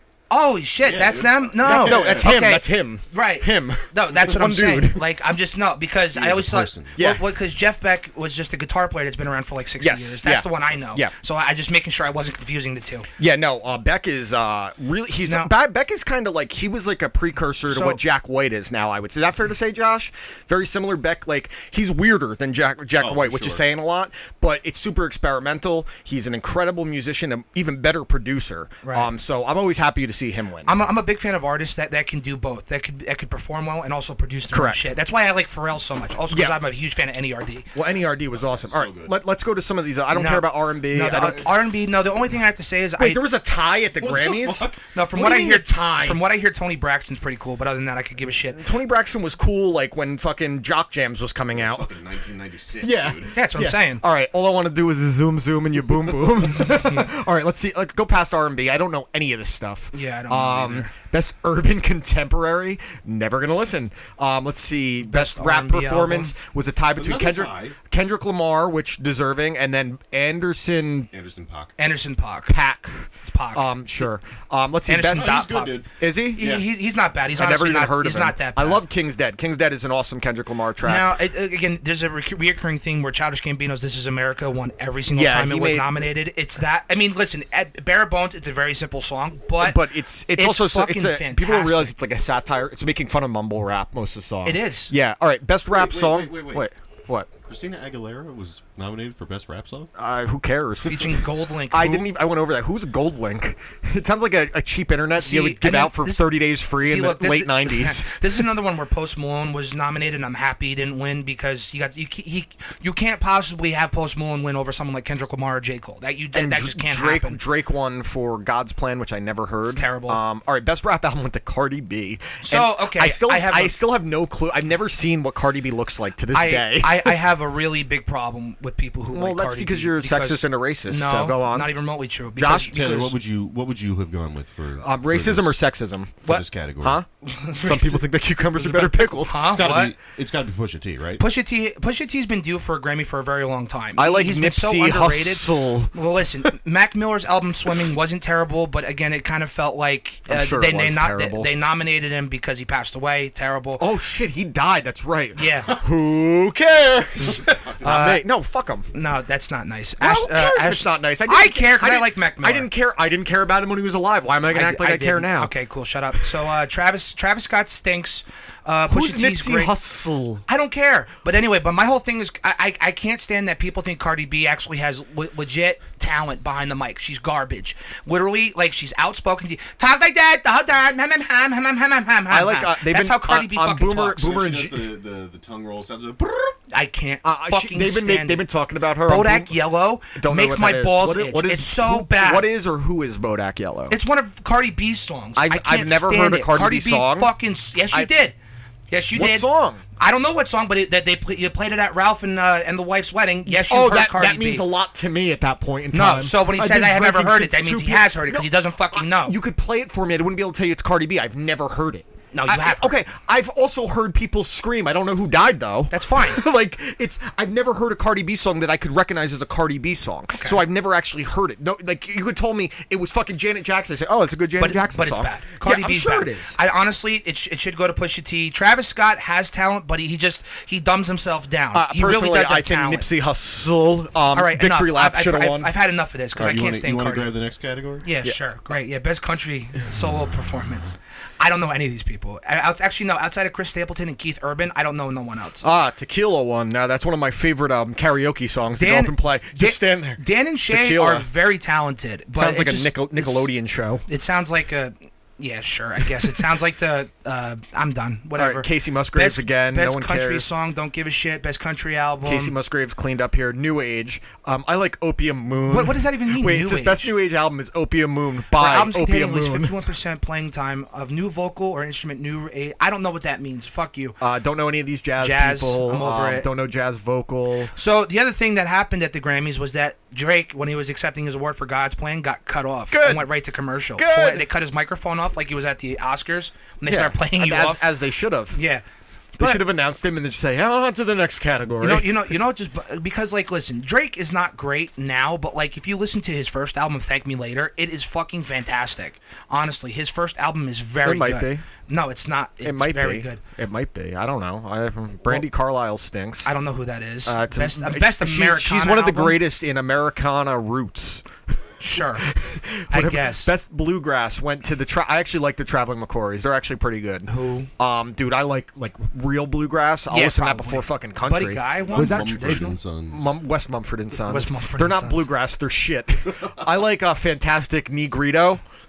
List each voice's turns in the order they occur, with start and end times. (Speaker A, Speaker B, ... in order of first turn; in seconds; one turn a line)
Speaker A: 0.3-13.1
Speaker B: 0.8-2.3
Speaker C: 1.6-5.1
Speaker B: 6.1-7.0
Speaker C: 7.0-7.2
Speaker C: 9.8-11.1
Speaker C: 13.2-30.8
Speaker A: 15.3-15.5
Speaker A: 17.7-18.0
Speaker B: 23.0-23.6
Speaker A: 28.8-29.1
Speaker A: 30.7-37.7
Speaker C: 34.5-34.8
Speaker C: 36.3-36.6
Speaker C: 37.8-41.5
Speaker B: 38.3-39.1
Speaker A: 40.1-43.2
Speaker C: 43.0-46.2
Speaker B: 44.0-44.8
Speaker A: 44.9-48.6
Speaker C: 48.5-51.9
Speaker B: 51.5-53.3
Speaker C: 52.8-71.1
Speaker A: 53.3-54.0
Speaker A: 56.8-57.1
Speaker A: 59.9-60.9
Speaker A: 65.1-66.3
Speaker B: 67.0-67.8
Speaker B: 71.1-71.7
Speaker A: 71.8-72.5
Speaker C: 72.5-75.5
Speaker A: 73.2-73.7
Speaker A: 74.9-75.8
Speaker B: 75.1-76.6
Speaker C: 76.0-76.6
Speaker A: 76.3-78.8
Speaker C: 77.3-81.1
Speaker A: 80.8-89.8
Speaker C: 85.1-86.0
Speaker C: 89.6-97.3
Speaker A: 90.3-91.9
Speaker A: 94.5-94.9
Speaker B: 95.7-96.7
Speaker B: 97.4-99.9
Speaker C: 100.0-108.2
Speaker A: 100.9-102.1
Speaker A: 105.2-117.4
Speaker C: 116.3-127.2
Speaker A: 119.7-120.2
Speaker A: 122.4-123.8
Speaker A: 126.3-133.1
Speaker C: 129.1-131.7
Speaker C: 132.3-132.8
Speaker B: 132.5-135.6
Speaker C: 134.8-136.2
Speaker B: 136.2-137.0
Speaker C: 136.8-139.6
Speaker A: 137.3-139.9
Speaker B: 139.4-141.2
Speaker A: 141.2-153.8
Speaker C: 144.0-145.9
Speaker C: 150.3-151.5
Speaker C: 153.8-158.9
Speaker A: 155.4-155.8
Speaker B: 157.2-157.8
Speaker A: 157.8-158.2
Speaker A: 158.9-162.7
Speaker C: 160.0-165.5
Speaker A: 164.5-169.7
Speaker C: 168.9-170.4
Speaker A: 170.5-184.2
Speaker C: 182.3-184.9
Speaker B: 184.2-186.6
Speaker A: 186.7-188.4
Speaker C: 187.2-194.0
Speaker A: 189.1-192.5
Speaker A: 193.9-198.4
Speaker C: 195.4-197.3
Speaker A: 198.9-204.6
Speaker C: 199.1-199.8
Speaker C: 203.5-226.6
Speaker A: 205.9-209.4
Speaker A: 212.3-213.0
Speaker A: 215.9-216.4
Speaker A: 220.4-220.6
Speaker A: 224.6-233.1
Speaker C: 231.7-235.7
Speaker A: 234.3-237.3
Speaker B: 236.4-238.1
Speaker A: 238.0-245.7
Speaker C: 245.6-251.3
Speaker A: 248.8-253.5
Speaker C: 252.3-254.1
Speaker A: 254.1-262.5
Speaker C: 258.4-260.5
Speaker C: 262.2-269.7
Speaker A: 265.7-267.1
Speaker A: 268.5-274.2
Speaker C: 274.2-277.7
Speaker A: 275.2-276.5
Speaker A: 277.8-287.8
Speaker C: 282.9-283.3
Speaker C: 284.0-284.5
Speaker C: 286.9-288.6
Speaker A: 288.5-288.8
Speaker A: 289.4-289.6
Speaker C: 289.4-292.1
Speaker A: 291.8-303.4
Speaker C: 301.0-301.6
Speaker C: 302.6-306.5
Speaker A: 306.4-309.4
Speaker C: 307.2-328.6
Speaker A: 311.8-312.3
Speaker A: 312.9-313.5
Speaker A: 317.3-317.7
Speaker A: 320.1-322.8
Speaker B: 321.9-323.3
Speaker A: 324.3-325.2